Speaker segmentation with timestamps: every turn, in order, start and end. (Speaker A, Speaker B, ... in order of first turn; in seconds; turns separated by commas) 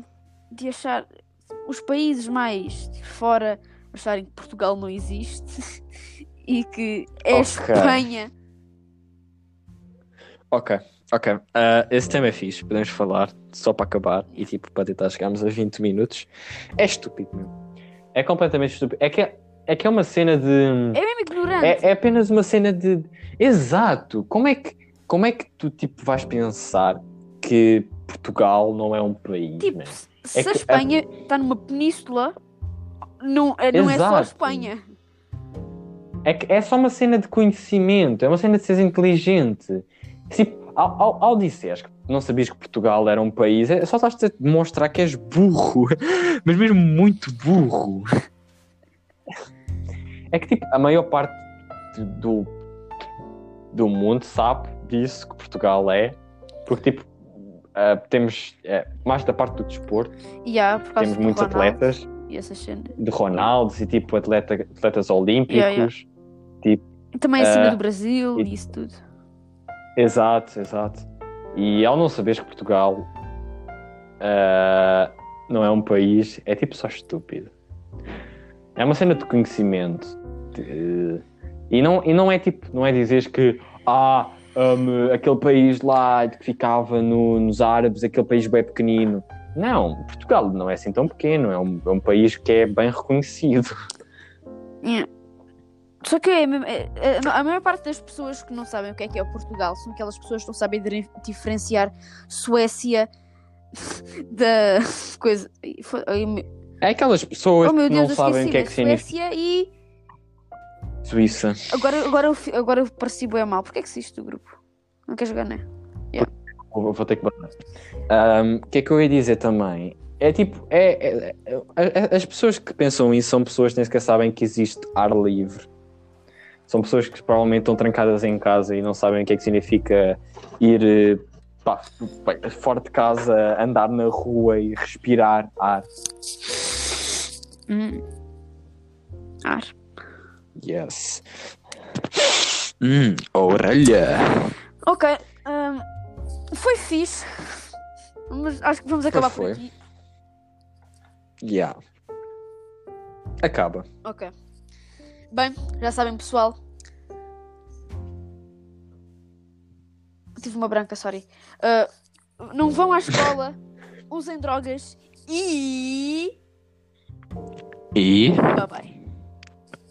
Speaker A: 0.5-1.1, Speaker A: 1.7-5.6, Speaker A: 6.4-8.3, Speaker B: 7.3-8.1, Speaker B: 10.5-17.5, Speaker B: 18.1-21.0, Speaker A: 20.9-21.9, Speaker B: 21.6-30.9, Speaker A: 29.6-32.3, Speaker A: 33.2-34.8, Speaker B: 33.7-34.7, Speaker B: 36.2-48.1, Speaker B: 50.3-51.4, Speaker B: 51.9-52.5, Speaker B: 53.7-60.1, Speaker A: 60.4-63.0, Speaker B: 61.0-62.1, Speaker B: 63.0-66.1, Speaker A: 65.5-65.9, Speaker A: 67.2-69.0, Speaker B: 67.4-67.8, Speaker B: 70.0-73.1, Speaker B: 74.2-77.5, Speaker B: 78.8-93.8, Speaker A: 94.8-95.1, Speaker A: 96.0-103.1, Speaker A: 103.8-106.5, Speaker B: 106.8-109.1, Speaker A: 107.6-109.7, Speaker B: 111.0-111.6, Speaker A: 111.7-116.3, Speaker B: 116.2-117.5, Speaker B: 118.1-125.7, Speaker B: 126.7-135.9, Speaker A: 137.7-138.0, Speaker A: 139.4-139.7, Speaker B: 140.6-141.2, Speaker B: 142.8-144.5, Speaker A: 144.8-145.8, Speaker A: 146.5-147.6, Speaker A: 148.3-149.7, Speaker B: 149.1-149.6, Speaker B: 151.4-151.8, Speaker B: 153.4-153.8, Speaker A: 154.0-154.3, Speaker A: 155.3-156.6, Speaker A: 160.4-161.9, Speaker A: 162.4-163.6, Speaker A: 164.1-166.3, Speaker B: 167.9-168.6, Speaker A: 168.5-168.9